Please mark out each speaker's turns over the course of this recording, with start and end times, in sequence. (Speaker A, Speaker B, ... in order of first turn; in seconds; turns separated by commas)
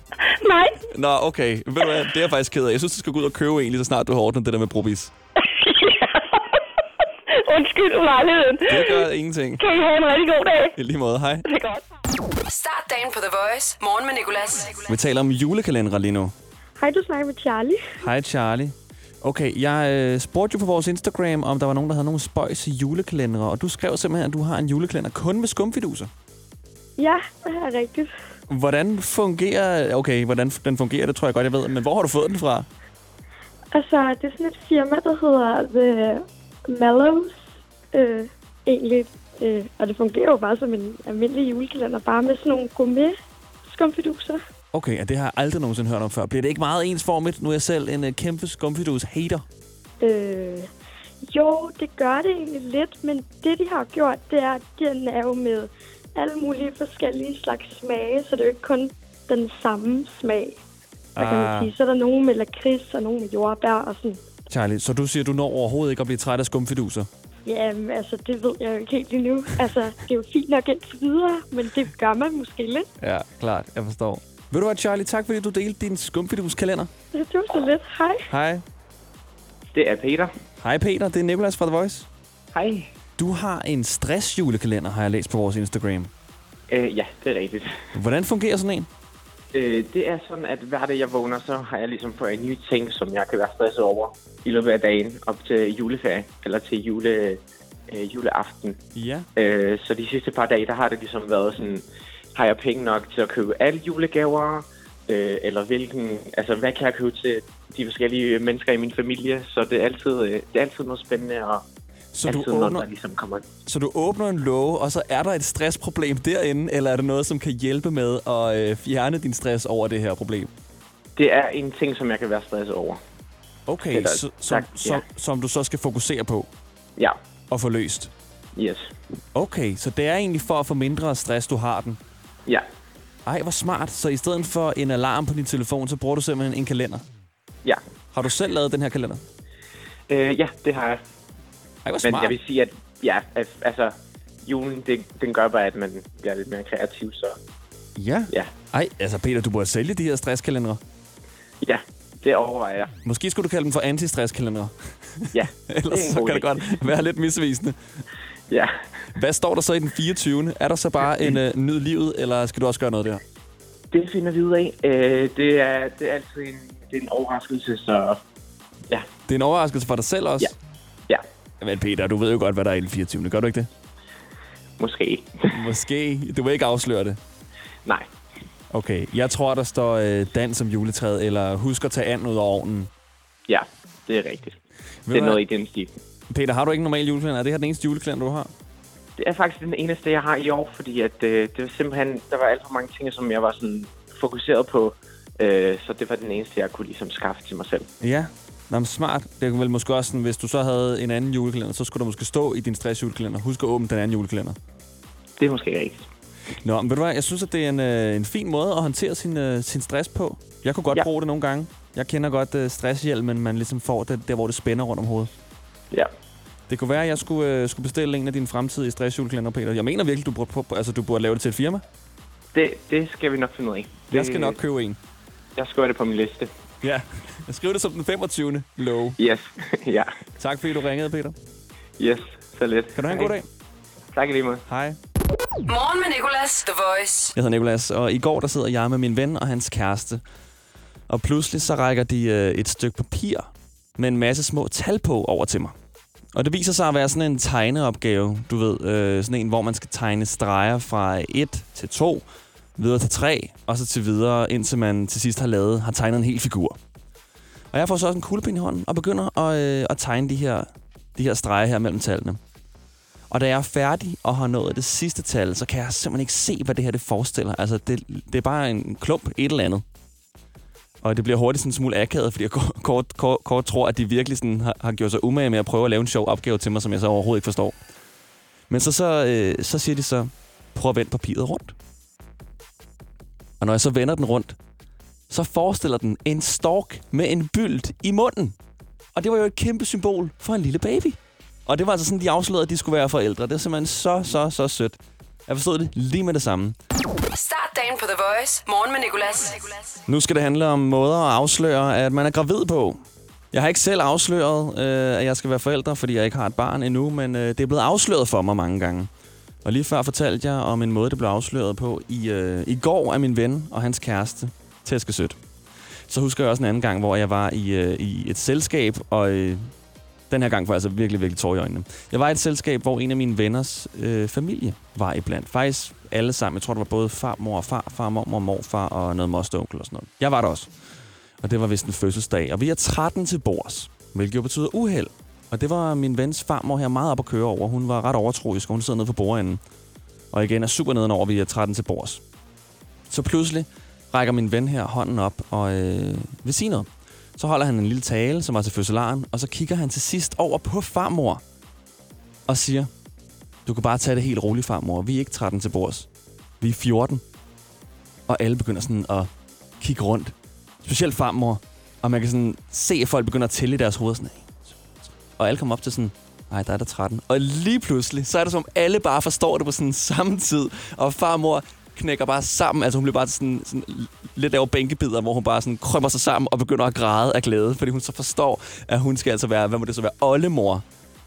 Speaker A: 0.3-0.8, Speaker B: 0.9-5.1, Speaker A: 5.4-6.5, Speaker A: 7.3-9.1, Speaker B: 8.7-9.6, Speaker A: 9.6-10.8, Speaker B: 10.8-11.5, Speaker A: 11.5-11.8, Speaker C: 12.5-14.9, Speaker B: 14.9-16.3, Speaker D: 16.8-18.0, Speaker B: 18.0-26.1, Speaker D: 27.0-28.1, Speaker B: 28.5-32.7, Speaker D: 33.7-44.4, Speaker B: 44.7-49.5, Speaker D: 50.0-50.7, Speaker D: 51.2-60.6, Speaker B: 61.2-61.7, Speaker D: 61.2-64.2, Speaker B: 64.5-67.1, Speaker D: 67.5-72.9, Speaker B: 73.0-76.9, Speaker D: 77.1-78.3, Speaker B: 78.3-78.7, Speaker E: 79.7-80.3, Speaker B: 80.6-82.1, Speaker E: 82.5-82.9, Speaker B: 83.2-86.1, Speaker E: 86.7-87.8, Speaker B: 87.9-88.9, Speaker E: 89.5-98.8, Speaker B: 99.0-99.3, Speaker E: 99.4-101.8, Speaker E: 102.3-111.6, Speaker B: 112.1-112.9, Speaker E: 112.3-113.5, Speaker B: 113.7-120.5, Speaker E: 121.2-123.0, Speaker B: 123.7-126.5, Speaker E: 123.9-125.0, Speaker B: 127.5-128.1, Speaker E: 128.6-128.9, Speaker B: 129.3-132.0, Speaker B: 133.3-137.1, Speaker B: 138.1-139.2, Speaker E: 140.1-141.0, Speaker B: 141.8-142.4, Speaker E: 142.0-147.4, Speaker B: 148.0-150.8, Speaker E: 151.6-152.9, Speaker B: 153.1-157.8, Speaker E: 155.3-156.8, Speaker E: 158.5-159.1, Speaker B: 159.2-163.2, Speaker E: 163.9-168.2, Speaker B: 169.3-170.5, Speaker B: 171.6-173.7, Speaker E: 174.8-175.6, Speaker B: 175.5-177.2, Speaker B: 178.7-182.9, Speaker E: 183.5-184.6, Speaker B: 185.1-185.4, Speaker E: 185.1-185.9, Speaker B: 186.3-188.5, Speaker E: 189.2-197.9, Speaker B: 198.0-204.6, Speaker E: 205.4-206.0, Speaker B: 206.6-215.3, Speaker B: 216.7-221.8, Speaker E: 222.5-224.6, Speaker B: 224.1-225.0, Speaker E: 225.6-226.5, Speaker B: 226.8-229.2, Speaker E: 229.2-230.1, Speaker B: 230.4-231.4, Speaker E: 232.0-233.3, Speaker B: 233.0-233.5, Speaker E: 234.1-234.6, Speaker B: 234.7-235.0, Speaker C: 235.7-237.3, Speaker B: 237.3-240.2, Speaker B: 241.1-245.8, Speaker B: 246.3-256.8, Speaker B: 257.7-262.4, Speaker B: 263.3-269.8, Speaker B: 271.0-277.8, Speaker B: 278.7-281.8, Speaker B: 283.6-284.6, Speaker B: 285.3-288.6, Speaker B: 289.1-296.8, Speaker C: 297.3-300.0, Speaker B: 300.1-303.0, Speaker B: 303.5-309.1, Speaker B: 309.6-315.4, Speaker B: 316.1-319.7, Speaker B: 320.3-330.7, Speaker B: 331.4-339.6, Speaker B: 340.3-342.2, Speaker B: 343.1-351.4, Speaker B: 352.5-352.9, Speaker B: 353.7-356.1, Speaker B: 356.6-357.2, Speaker B: 358.3-380.9